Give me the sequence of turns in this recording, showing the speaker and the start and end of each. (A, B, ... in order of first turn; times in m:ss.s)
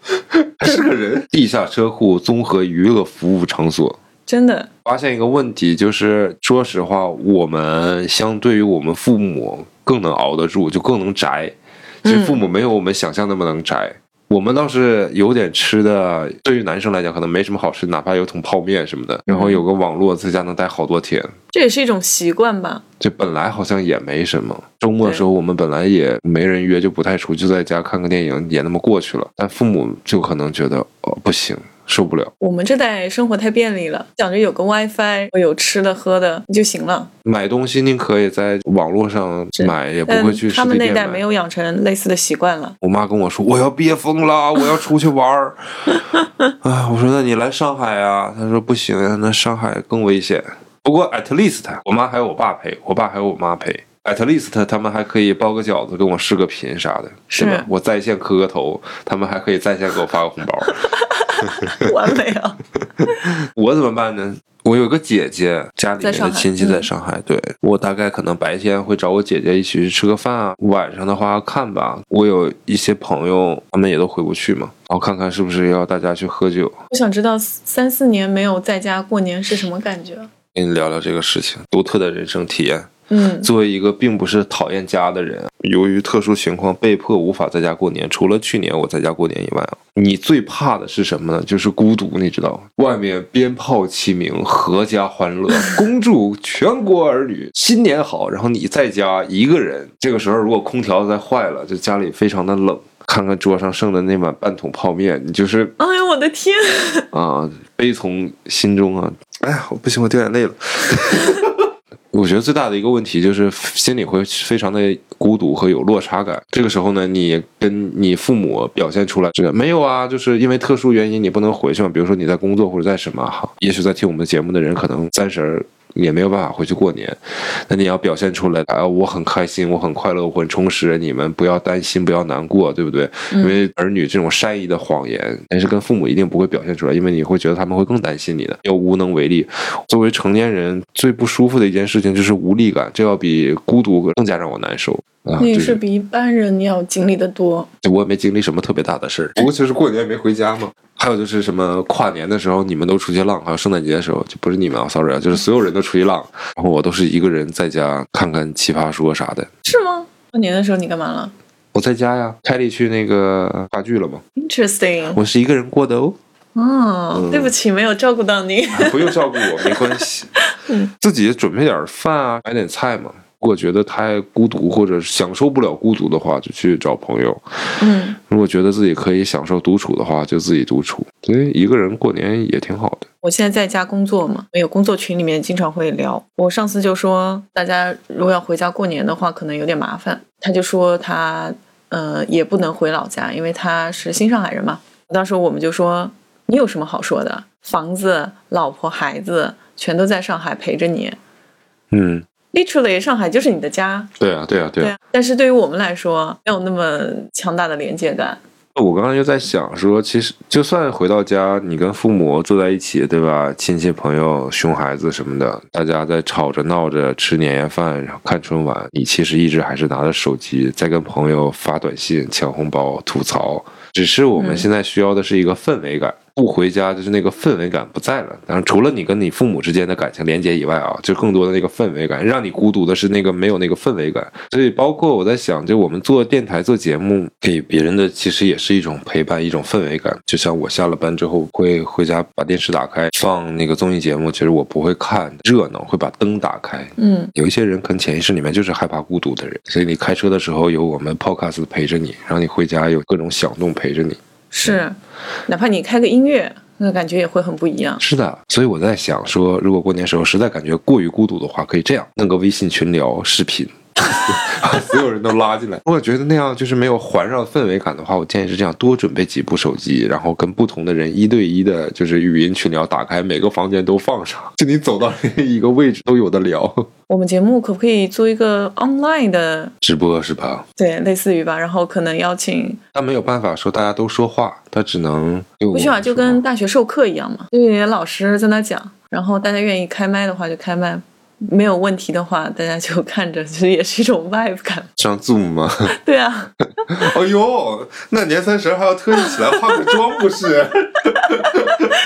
0:00.3-0:04.0 A
0:04.3-0:04.7 B
0:04.8-0:21.3 A
0:12.0-0:12.4 B
0:19.3-0:19.6 B
0:21.5-0:22.8 B
0:23.0-0:32.3 A
0:32.4-0:37.1 B
0:37.2-0:41.2 A
0:39.6-0:42.8 B
0:42.8-0:46.0 A
0:46.6-1:00.8 A
0:57.3-0:57.7 B
1:00.7-1:02.6 B
1:01.4-1:01.9 A
1:03.0-1:16.8 A
1:06.0-1:06.9 B
1:16.9-1:20.3 B
1:20.5-1:22.9 A
1:23.1-1:23.5 B
1:23.4-1:45.7 A
1:45.8-1:47.1 B
1:47.1-2:25.8 A
2:13.3-2:13.6 B
2:25.4-2:27.7 B
2:27.8-2:39.5 A
2:39.6-2:41.3 B
2:41.7-2:44.2 A
2:44.4-2:45.2 B
2:45.1-2:46.2 A
2:46.5-2:50.9 B
2:47.1-2:47.5 A
2:48.7-2:50.3 A
2:51.0-2:57.4 A
2:57.8-2:58.2 B
2:58.2-3:03.0 A
3:03.2-3:21.2 B
3:21.9-3:22.2 A
3:22.5-3:24.1 B
3:24.2-3:25.0 A
3:24.8-3:28.4 B
3:28.7-4:14.8 A
3:44.4-3:44.7 B
4:07.0-4:07.3 B
4:14.5-4:15.0 B
4:15.5-4:18.0 B
4:18.0-4:36.9 A
4:37.1-4:39.7 B
4:39.8-4:40.6 A
4:40.8-4:42.8 B
4:42.9-4:46.4 A
4:45.7-4:54.9 B
4:55.0-4:55.9 A
4:55.9-4:56.9 B
4:56.9-5:01.9 A
4:59.2-4:59.9 B
5:01.2-5:01.8 B